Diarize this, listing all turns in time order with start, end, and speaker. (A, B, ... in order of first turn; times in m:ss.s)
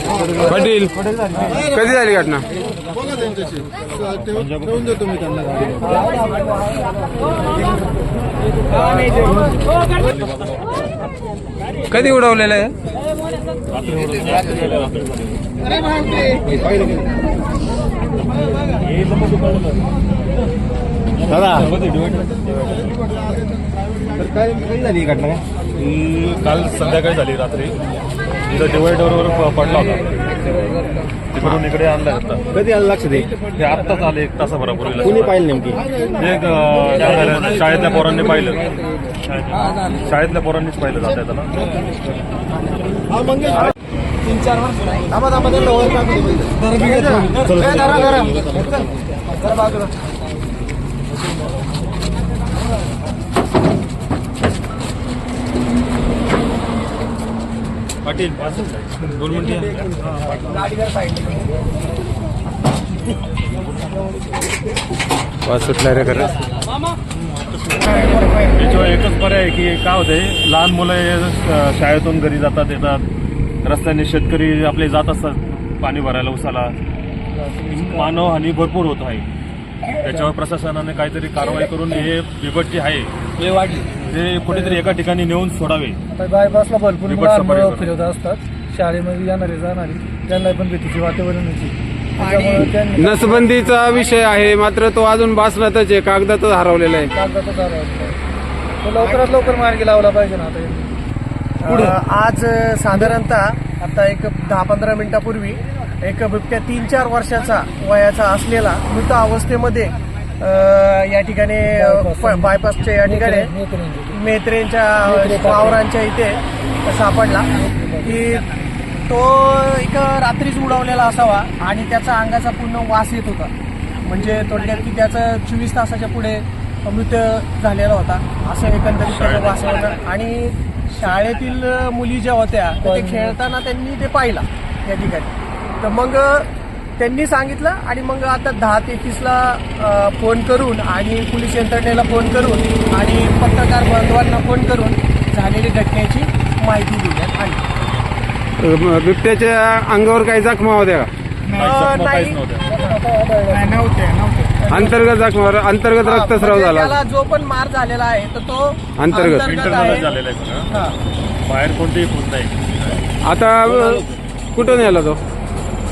0:00.4-0:02.4 A
0:04.2-0:05.1 B
0:08.9-0:09.4 B
0:10.0-0:10.6 B
0:11.9-0:12.7 A
0:13.7-0:15.3 B
0:16.4-0:17.0 C
0:21.3-0:21.7 C
0:21.6-0:22.4 B
0:24.2-0:25.4 C
0:25.8-0:27.8 B
0:28.5-0:30.4 B
0:31.3-0:32.4 B
0:32.5-0:33.2 C
0:33.6-0:35.5 B
0:35.2-0:35.8 C
0:36.1-0:38.7 B
0:39.2-0:41.7 B
0:45.8-0:46.0 C
0:46.9-0:48.7 B
0:58.0-1:00.1 B
1:05.4-1:06.3 A
1:08.4-1:13.0 B
1:13.6-1:16.8 B
1:17.3-1:18.3 D
1:17.7-1:19.2 B
1:20.0-1:26.0 B
1:26.1-1:33.6 D
1:27.0-1:28.0 B
1:32.2-1:32.7 E
1:33.0-1:37.1 A
1:37.1-1:38.2 D
1:38.8-1:40.9 D
1:39.0-1:39.4 E
1:41.6-1:53.5 E
1:51.7-1:54.1 D
1:54.1-1:58.5 E
1:55.0-1:55.8 D
1:57.6-1:58.1 D
1:59.1-2:27.6 E
2:09.0-2:10.0 B
2:12.8-2:13.4 D
2:28.6-2:31.1 A
2:31.5-2:32.7 B
2:31.6-2:32.9 E
2:32.6-2:33.9 D
2:34.6-2:34.9 E
2:34.7-2:36.9 A
2:36.0-2:40.1 E
2:39.0-2:39.6 A
2:39.4-2:40.7 B
2:41.4-2:43.0 B
2:43.2-2:45.2 A